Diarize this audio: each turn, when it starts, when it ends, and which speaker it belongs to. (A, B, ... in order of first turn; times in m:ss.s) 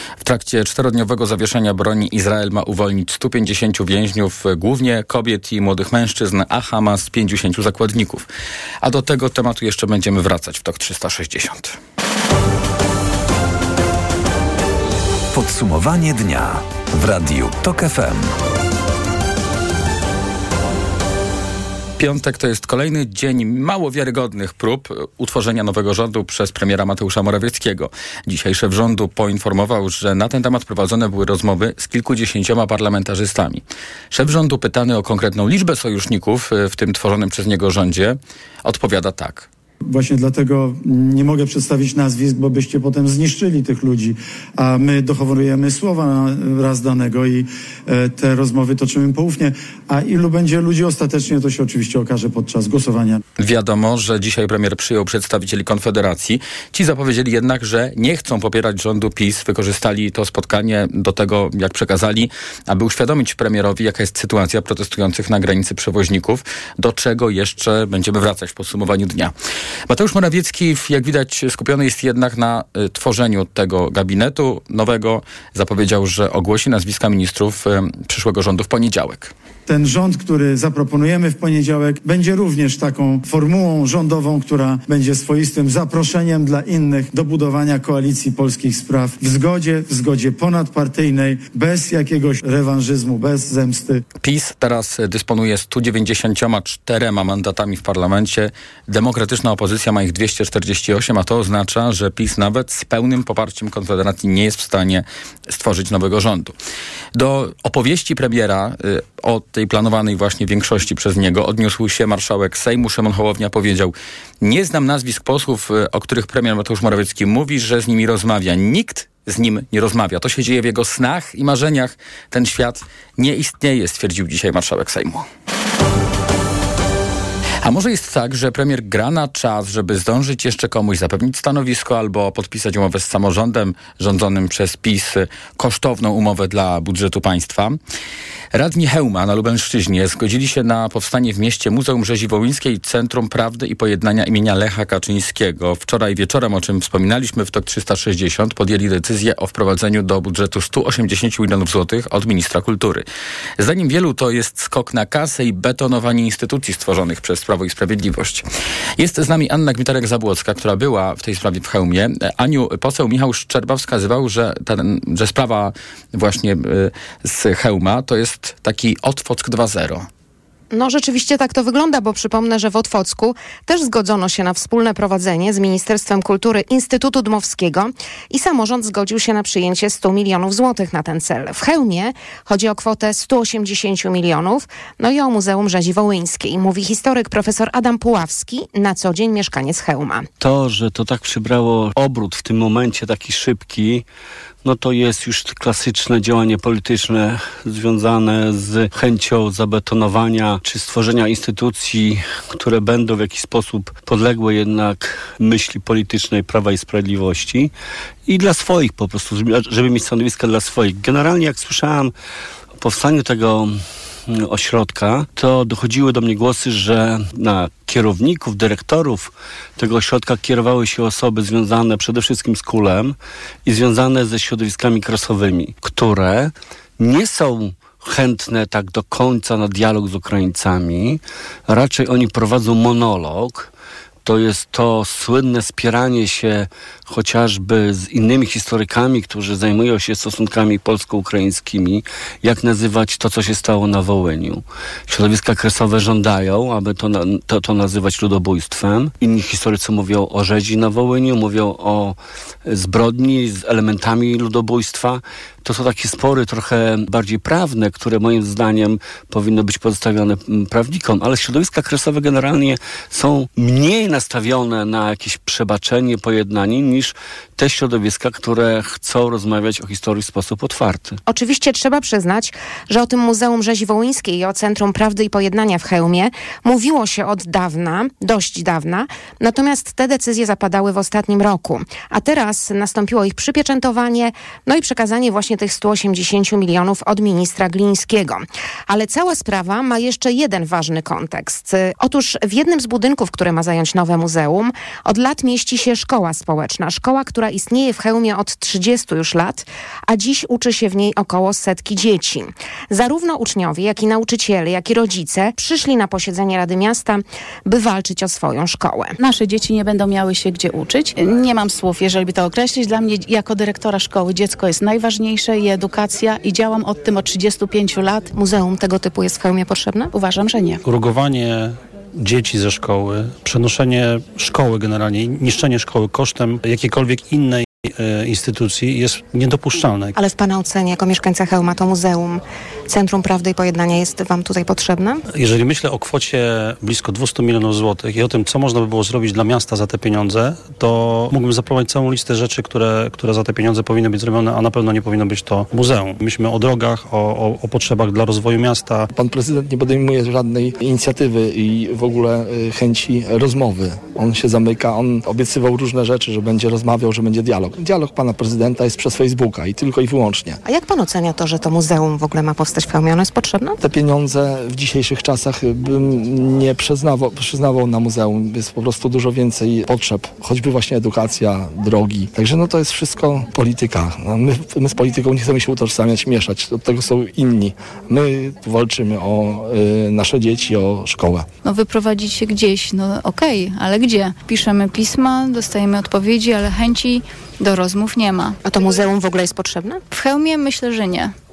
0:00.2-0:08.3 A
0:08.8-0:11.8 A
0:15.3-0:18.3 B
0:22.0-0:39.5 A
0:39.9-0:53.2 C
0:53.4-1:09.3 A
1:09.9-1:19.3 A
1:19.7-1:34.0 C
1:34.2-1:46.5 A
1:47.1-2:05.2 A
2:07.6-2:17.8 A
2:18.5-2:33.0 A
2:33.6-2:38.4 A
2:39.0-2:50.1 A
2:50.7-3:10.3 D
3:10.4-3:14.0 E
3:14.6-3:27.7 E
3:28.3-3:32.1 E
3:32.8-3:43.1 E
3:43.6-3:53.7 E
3:54.2-4:31.2 E
4:31.3-5:09.2 D
5:09.2-5:18.3 F
5:18.3-5:20.1 D
5:20.1-5:20.8 F
5:20.8-5:30.1 G
5:30.2-5:35.2 D
5:35.3-5:49.1 G
5:49.1-6:00.6 H
6:00.6-6:03.8 D
6:03.8-6:21.5 H
6:21.6-6:28.6 I
6:28.6-6:30.0 D
6:30.1-6:31.3 I